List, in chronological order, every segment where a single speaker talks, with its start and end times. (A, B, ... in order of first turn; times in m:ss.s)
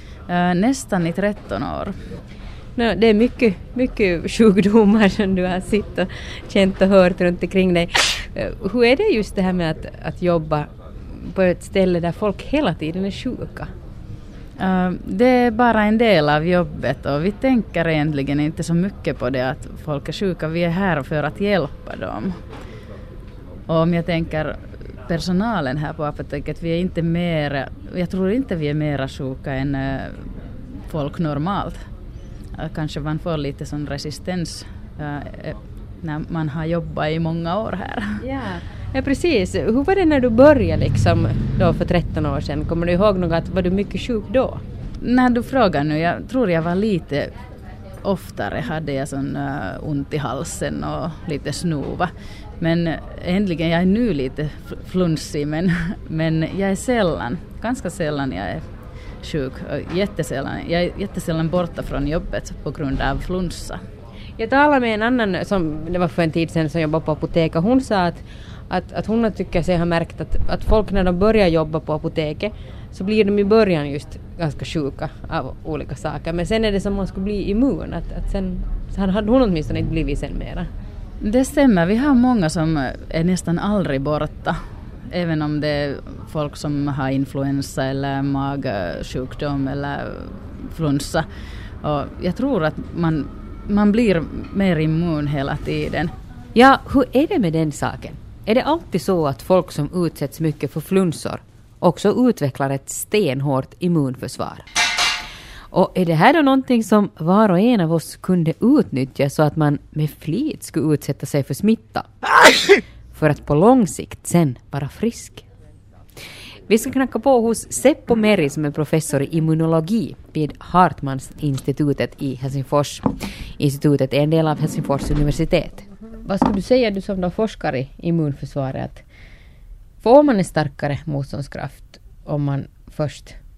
0:00.3-0:01.9 A
0:02.8-0:13.7 B
0:14.6-0:22.4 A
0:23.7-0:31.8 A
0:32.6-0:38.2 A
0:38.2-0:44.6 B
0:45.0-0:47.3 A
0:48.0-0:58.6 A
0:59.2-1:03.8 A
1:04.4-1:20.7 B
1:21.2-1:31.3 A
1:31.8-1:36.1 A
1:36.6-1:44.6 B
1:45.7-1:52.1 B
1:53.1-1:55.4 B
1:56.7-2:09.0 B
2:10.0-2:13.4 B